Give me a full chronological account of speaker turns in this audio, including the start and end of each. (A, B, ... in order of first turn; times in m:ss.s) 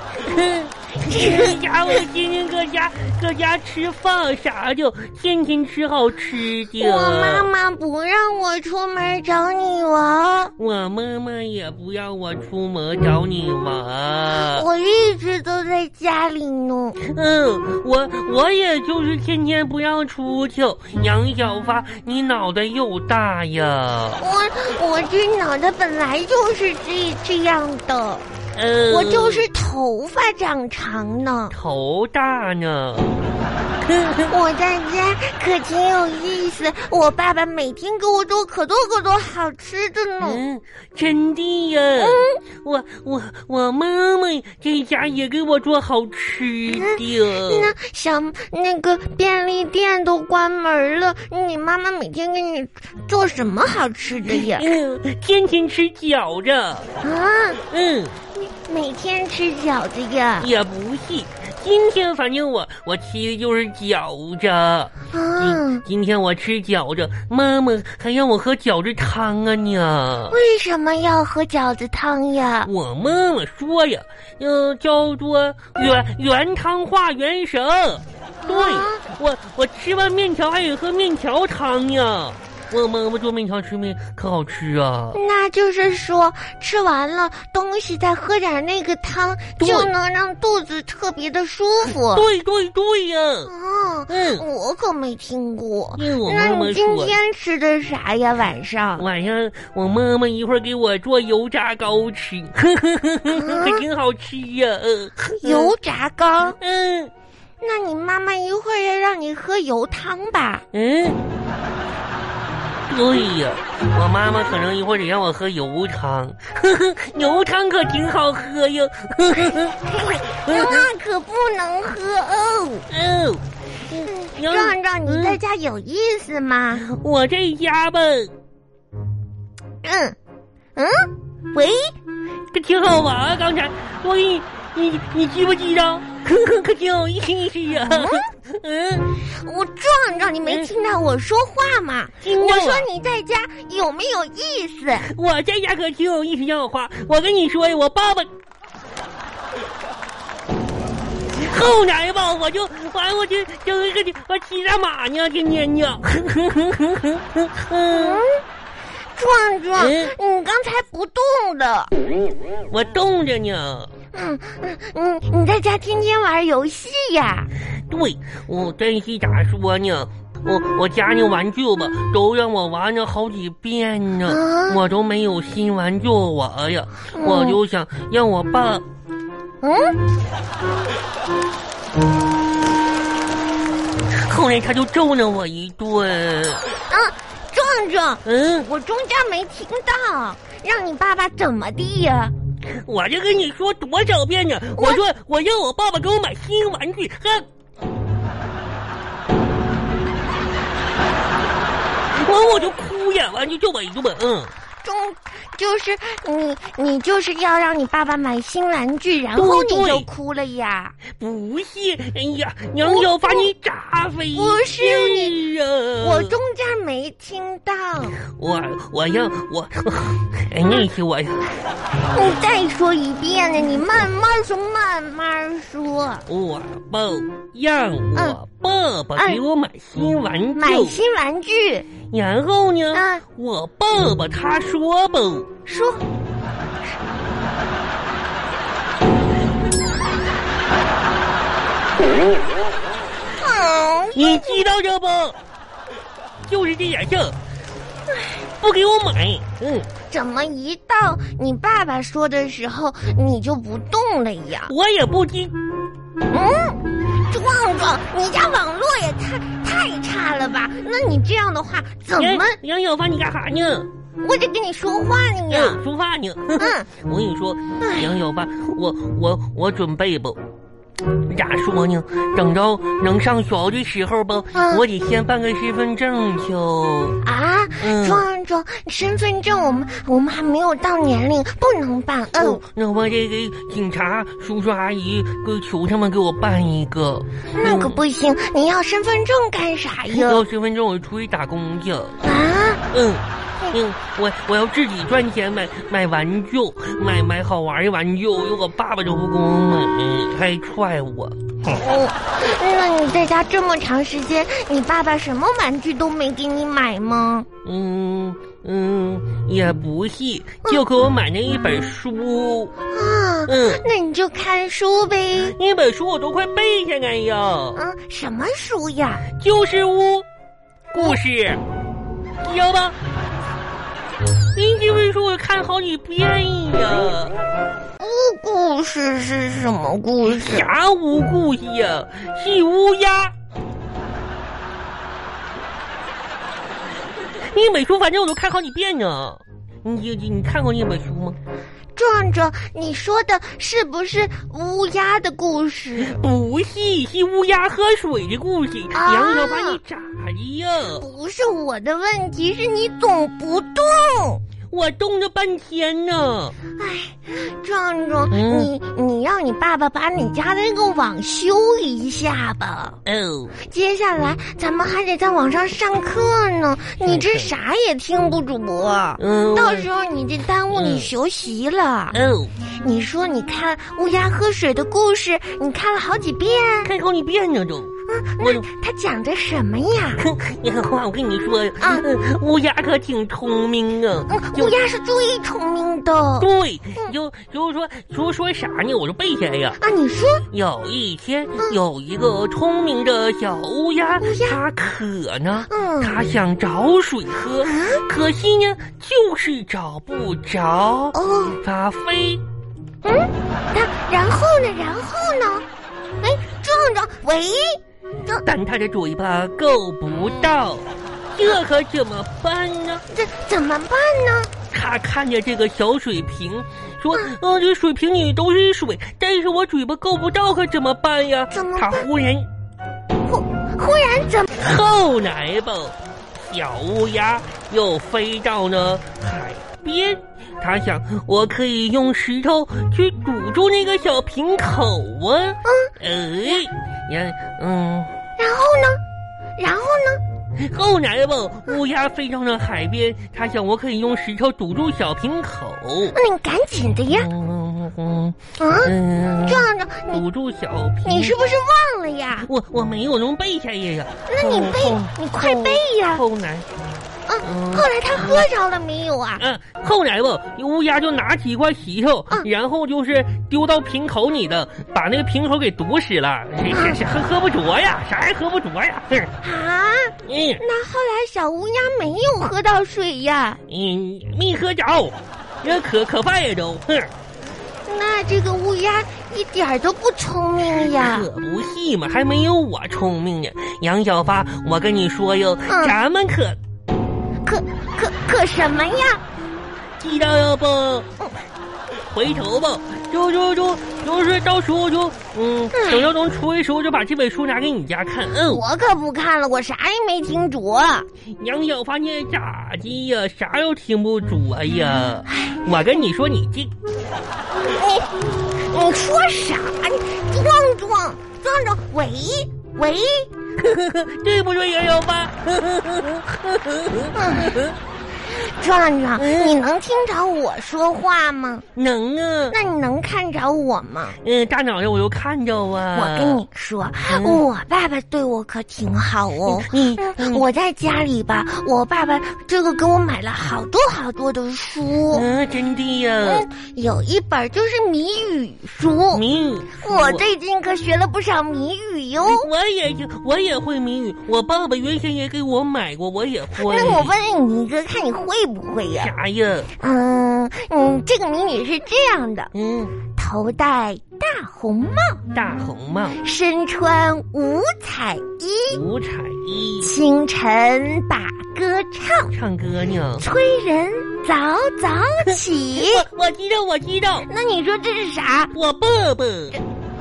0:00.2-0:07.5 A
0:01.1-0:01.6 B
0:06.8-0:10.5 B
0:10.6-0:14.6 A
0:14.3-0:17.0 B
0:17.0-0:24.2 A
0:24.2-0:28.2 B
0:28.5-0:29.5 A
0:28.9-0:31.6 B
0:31.5-0:33.2 A
0:33.8-0:34.3 A
0:34.3-0:40.4 B
0:40.2-0:47.7 A
0:42.0-0:42.4 B
0:46.7-0:54.7 B
0:54.2-0:56.9 A
0:57.0-0:57.6 B
0:57.7-0:58.2 A
0:58.4-1:00.5 B
1:00.4-1:10.4 A
1:05.1-1:05.8 B
1:10.3-1:12.7 B
1:12.6-1:25.2 A
1:18.4-1:19.0 B
1:25.1-1:32.2 B
1:29.6-1:29.9 A
1:31.9-1:33.5 A
1:33.4-1:39.1 B
1:34.1-1:34.4 A
1:36.0-1:37.1 A
1:39.0-1:45.7 A
1:43.3-1:43.8 B
1:45.4-1:46.6 B
1:46.6-1:47.1 A
1:47.6-1:50.6 B
1:50.7-1:51.2 A
1:52.9-2:00.9 A
1:59.4-2:02.9 B
2:02.9-2:05.4 A
2:04.0-2:06.8 B
2:06.7-2:08.3 A
2:09.8-2:10.2 B
2:10.7-2:11.9 B
2:12.5-2:19.1 A
2:17.9-2:18.3 B
2:19.2-2:25.1 B
2:20.4-2:20.7 A
2:22.2-2:22.9 A
2:25.0-2:28.3 A
2:31.3-2:38.2 A
2:37.9-2:38.4 B
2:39.1-2:41.9 B
2:39.8-2:40.1 A
2:42.7-2:43.9 A
2:44.1-2:47.5 B
2:47.9-2:58.8 A
2:54.2-2:54.8 B
2:57.1-2:57.6 B
2:59.6-3:00.0 B
3:04.1-3:06.6 A
3:06.9-3:12.3 B
3:08.2-3:08.7 A
3:12.6-3:17.5 A
3:22.1-3:24.5 A
3:24.8-3:31.0 B
3:29.3-3:30.1 A
3:31.2-3:36.4 A
3:32.8-3:33.5 B
3:34.3-3:35.4 B
3:36.0-3:38.2 B
3:38.2-3:41.5 A
3:42.1-3:46.3 B
3:46.3-3:51.0 A
3:49.2-3:49.4 B
3:50.5-3:51.9 B
3:52.1-3:55.5 A
3:52.9-3:53.2 B
3:55.6-3:56.0 B
4:03.4-4:04.6 B
4:04.1-4:05.4 A
4:06.5-4:07.4 A
4:08.6-4:09.9 A
4:10.1-4:14.7 B
4:14.7-4:15.6 A
4:16.3-4:22.6 B
4:22.2-4:23.9 A
4:24.2-4:25.8 B
4:25.5-4:30.4 A
4:26.6-4:26.9 B
4:27.8-4:28.1 B
4:31.1-4:37.2 A
4:34.5-4:34.8 B
4:37.2-4:42.6 B
4:37.8-4:38.2 A
4:42.3-4:48.0 A
4:47.5-4:50.4 B
4:50.1-4:52.2 A
4:52.2-4:52.8 B
4:52.9-5:01.8 A
5:01.7-5:07.5 B
5:07.6-5:12.7 A
5:12.9-5:15.6 B
5:13.4-5:13.8 A
5:15.4-5:17.8 A
5:17.7-5:19.2 B
5:19.3-5:20.2 A
5:20.9-5:21.6 A
5:22.4-5:23.0 A
5:24.5-5:27.4 A
5:28.0-5:30.7 B
5:30.2-5:33.3 A
5:37.5-5:41.4 A
5:42.0-5:46.2 B
5:45.9-5:51.0 A
5:48.9-5:49.8 B
5:51.0-5:54.4 B
5:54.7-5:56.6 A
5:56.8-6:03.0 B
5:58.3-5:58.7 A
6:03.0-6:03.6 A
6:03.6-6:12.2 B
6:07.0-6:07.5 A
6:09.2-6:09.9 A
6:10.7-6:11.1 A
6:12.1-6:12.5 A
6:12.8-6:16.9 B
6:16.8-6:18.6 A
6:18.1-6:20.2 B
6:20.2-6:24.8 A
6:24.3-6:26.5 B
6:26.4-6:29.8 A
6:29.8-6:30.4 B
6:30.5-6:42.4 A
6:34.2-6:34.6 B
6:35.7-6:36.2 B
6:37.6-6:38.0 B
6:41.1-6:41.6 B
6:43.0-6:45.6 B
6:46.2-6:48.4 B
6:48.4-6:53.0 A
6:53.1-6:54.5 B
6:54.7-7:02.5 A
7:01.5-7:02.1 B
7:03.2-7:04.6 B
7:04.5-7:18.1 A
7:15.6-7:15.9 B
7:18.4-7:19.0 B
7:19.6-7:20.2 B
7:20.6-7:26.2 A
7:26.1-7:27.3 B
7:27.1-7:31.5 A
7:28.6-7:30.2 B
7:31.0-7:32.5 B
7:32.4-7:36.7 A
7:34.3-7:36.2 B
7:37.3-7:39.4 B
7:37.4-7:38.4 A
7:39.4-7:49.3 A
7:46.7-7:47.0 B
7:49.4-7:53.6 B
7:50.2-7:50.6 A
7:53.7-7:57.1 A
7:57.8-8:01.3 B
8:00.8-8:06.6 A
8:05.7-8:06.0 B
8:07.4-8:09.2 B
8:10.0-8:11.1 A
8:12.1-8:18.6 A
8:15.7-8:16.1 B
8:18.5-8:21.0 B
8:21.4-8:26.7 A
8:25.2-8:25.6 B
8:27.8-8:28.1 B
8:28.6-8:33.3 B
8:33.6-8:37.8 A
8:37.1-8:37.6 B
8:38.3-8:41.6 B
8:39.2-8:39.6 A
8:41.7-8:42.6 A
8:42.5-8:44.2 B
8:44.2-8:46.4 A
8:45.9-8:55.2 B
8:47.0-8:47.4 A
8:49.4-8:50.4 A
8:55.1-8:56.5 A
8:56.2-8:59.2 B
8:59.1-9:00.2 A
8:59.8-9:02.5 B
9:02.2-9:07.1 A
9:06.5-9:09.1 B
9:09.0-9:09.7 A
9:09.8-9:12.5 B
9:12.5-9:13.0 A
9:13.2-9:15.2 B
9:15.3-9:16.2 A
9:16.2-9:18.8 B
9:18.7-9:19.9 A
9:19.8-9:22.3 B
9:22.3-9:23.2 A
9:23.2-9:26.0 B
9:25.2-9:27.3 A
9:27.3-9:28.5 B
9:28.5-9:29.6 A